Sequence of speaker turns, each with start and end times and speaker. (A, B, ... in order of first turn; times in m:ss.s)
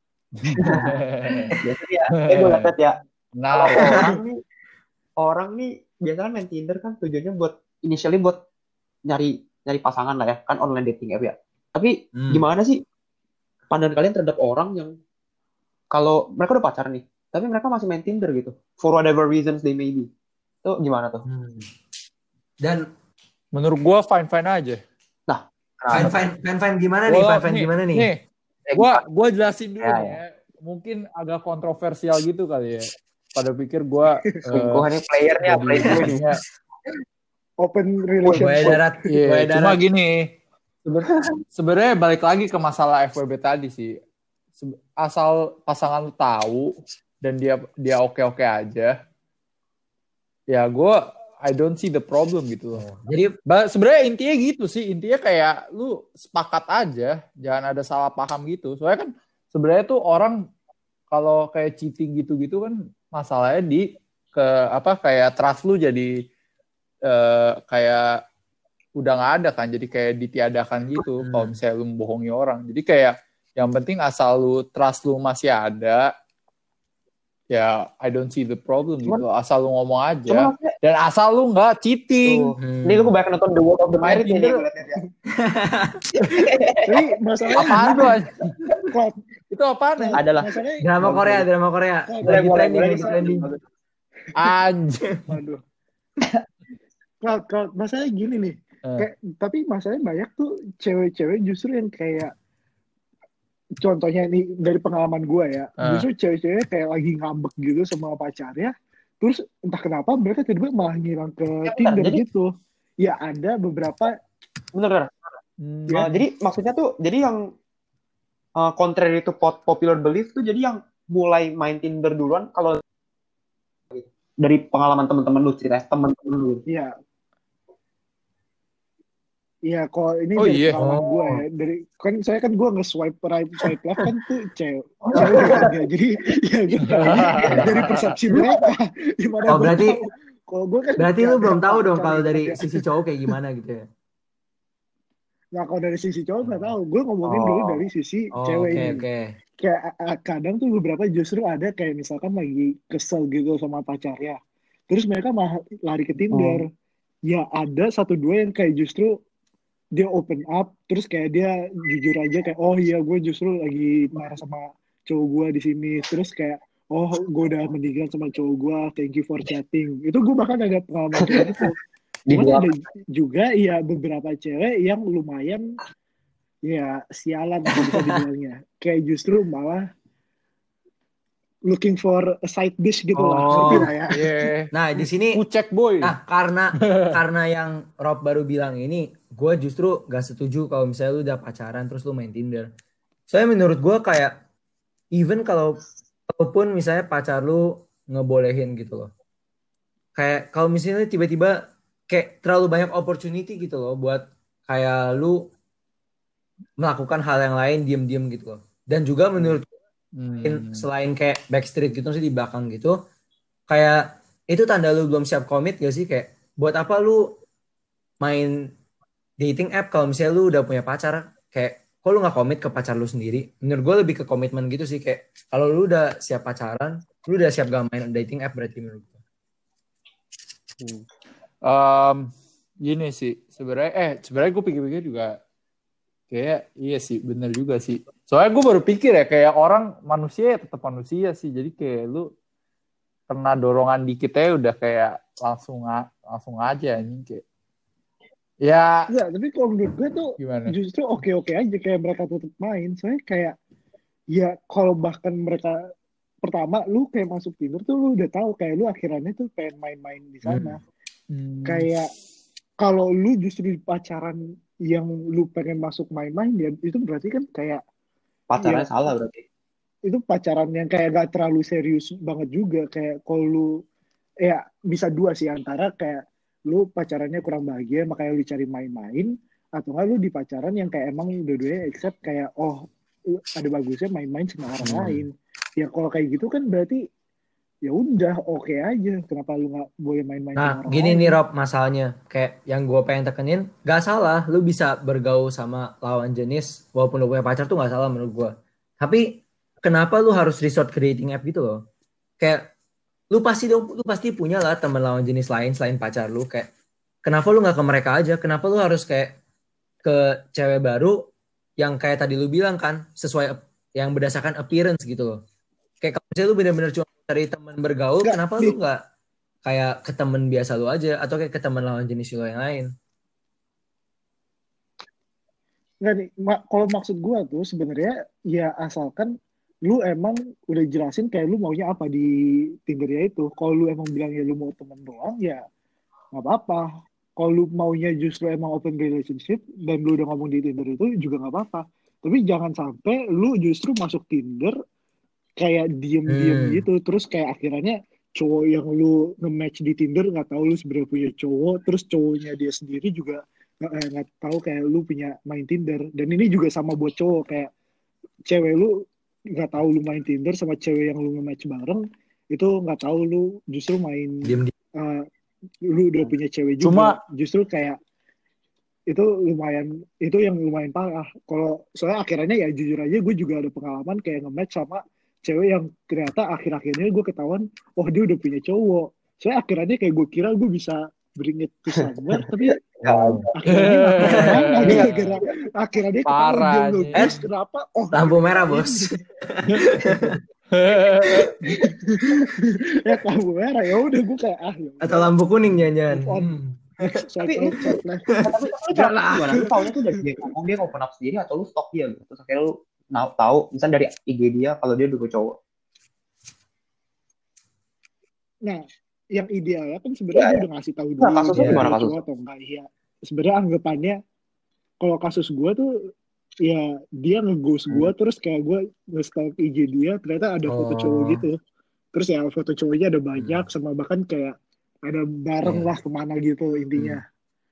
0:00.4-0:01.6 A
0:00.4-0:01.0 B
0:01.5-0:03.0 B
0:02.2-0:02.7 A
0:03.4-0:04.2 A
0:03.5-0:04.4 B
0:05.2-0:08.4 B
0:09.0-0:12.8 B
0:12.2-0:12.4 C
0:13.7-0:14.9 B
0:15.9-0:20.1 B
0:20.6-0:21.2 B
0:21.3-0:21.7 C
0:22.6-0:22.9 C
0:23.5-0:24.8 A
0:25.3-0:26.2 B
0:25.9-0:28.1 C
0:27.1-0:34.9 A
0:28.7-0:29.0 B
0:29.8-0:30.2 B
0:34.5-0:36.2 B
0:35.4-0:36.4 A
0:35.9-0:36.2 C
0:37.6-0:38.9 D
0:38.2-0:38.8 B
0:38.4-0:39.8 C
0:39.1-0:40.3 A
0:40.8-0:44.0 A
0:44.6-0:48.9 A
0:50.5-0:52.9 A
0:52.7-0:53.4 C
0:53.5-1:00.4 A
1:01.1-1:06.1 A
1:07.1-1:08.0 A
1:09.0-1:16.1 A
1:11.2-1:11.6 C
1:17.5-1:22.5 A
1:20.3-1:20.7 B
1:22.2-1:25.0 B
1:22.6-1:23.1 C
1:24.0-1:24.6 A
1:25.3-1:26.0 C
1:26.1-1:27.0 B
1:26.9-1:28.1 D
1:27.6-1:28.3 A
1:27.6-1:28.0 B
1:28.9-1:29.2 D
1:29.5-1:30.2 A
1:30.0-1:31.5 D
1:30.1-1:30.6 B
1:30.8-1:33.5 C
1:32.1-1:33.3 D
1:32.2-1:33.6 B
1:34.4-1:35.2 A
1:35.3-1:35.6 D
1:37.2-1:42.3 D
1:43.8-1:54.1 D
1:45.8-1:46.1 A
1:51.6-1:52.2 B
1:54.7-1:57.5 B
1:55.6-1:56.3 A
1:58.6-2:02.8 B
2:03.9-2:06.6 B
2:09.7-2:22.7 D
2:10.4-2:10.8 A
2:10.8-2:11.4 C
2:15.0-2:15.7 B
2:16.9-2:18.2 A
2:17.3-2:18.7 B
2:19.5-2:20.0 C
2:21.0-2:23.8 C
2:25.6-2:29.0 D
2:26.4-2:26.7 C
2:27.3-2:27.8 B
2:28.4-2:29.3 C
2:29.6-2:34.4 D
2:34.9-2:36.6 D
2:36.3-2:36.6 B
2:37.3-2:39.2 D
2:40.0-2:51.8 D
2:52.3-2:52.7 B
2:52.3-2:55.6 D
2:56.7-2:59.8 D
3:01.7-3:04.2 D
3:03.2-3:03.9 C
3:03.6-3:06.1 A
3:04.7-3:05.4 C
3:06.0-3:12.7 C
3:06.8-3:07.2 A
3:13.3-3:14.4 C
3:15.1-3:19.1 C
3:20.2-3:21.6 C
3:22.1-3:25.5 C
3:26.8-3:29.7 C
3:30.2-3:30.9 A
3:30.4-3:33.0 C
3:33.7-3:37.3 C
3:38.2-3:38.7 C
3:39.4-3:49.2 C
3:50.8-3:51.0 B
3:51.6-3:52.3 A
3:52.8-3:55.4 A
3:56.3-4:02.3 A
4:03.3-4:07.4 A
4:08.6-4:09.1 A
4:09.1-4:13.6 D
4:10.4-4:10.7 A
4:14.3-4:15.8 D
4:16.4-4:20.8 D
4:20.4-4:20.8 C
4:21.3-4:21.9 A
4:21.7-4:22.1 D
4:22.8-4:27.8 D
4:28.5-4:29.4 B
4:28.6-4:28.9 D
4:30.1-4:33.7 D
4:34.4-4:47.0 D
4:44.8-4:45.2 C
4:47.8-4:51.4 D
4:50.6-5:01.8 C
5:02.4-5:02.7 C
5:03.3-5:06.7 C
5:07.2-5:09.4 C
5:10.0-5:11.2 C
5:11.8-5:15.4 C
5:16.0-5:19.0 C
5:18.2-5:18.8 D
5:19.6-5:22.9 C
5:26.0-5:29.3 D
5:29.9-5:32.3 D
5:32.9-5:35.6 D
5:36.3-5:36.9 D
5:37.4-5:44.7 D
5:45.6-5:57.7 D
5:46.3-5:46.8 C
5:58.5-5:59.0 D
5:59.6-6:05.3 D
6:04.4-6:04.7 C
6:05.9-6:08.0 D
6:06.8-6:07.2 A
6:09.1-6:22.8 D
6:22.3-6:23.9 B
6:23.0-6:25.1 A
6:23.6-6:29.2 D
6:24.4-6:25.3 C
6:26.3-6:27.3 A
6:28.1-6:30.4 C
6:30.7-6:31.5 A
6:31.6-6:35.3 D
6:35.0-6:37.2 C
6:36.1-6:38.3 D
6:37.4-6:37.8 B
6:38.4-6:39.6 C
6:38.4-6:45.6 B
6:39.1-6:39.7 D
6:49.4-6:54.2 D
6:50.4-6:50.6 B
6:51.2-6:52.2 B
6:51.6-6:51.8 C
6:55.0-6:55.9 D
6:56.6-7:01.6 D
7:00.7-7:01.4 C
7:02.1-7:04.6 D
7:05.0-7:07.2 D
7:05.6-7:05.9 C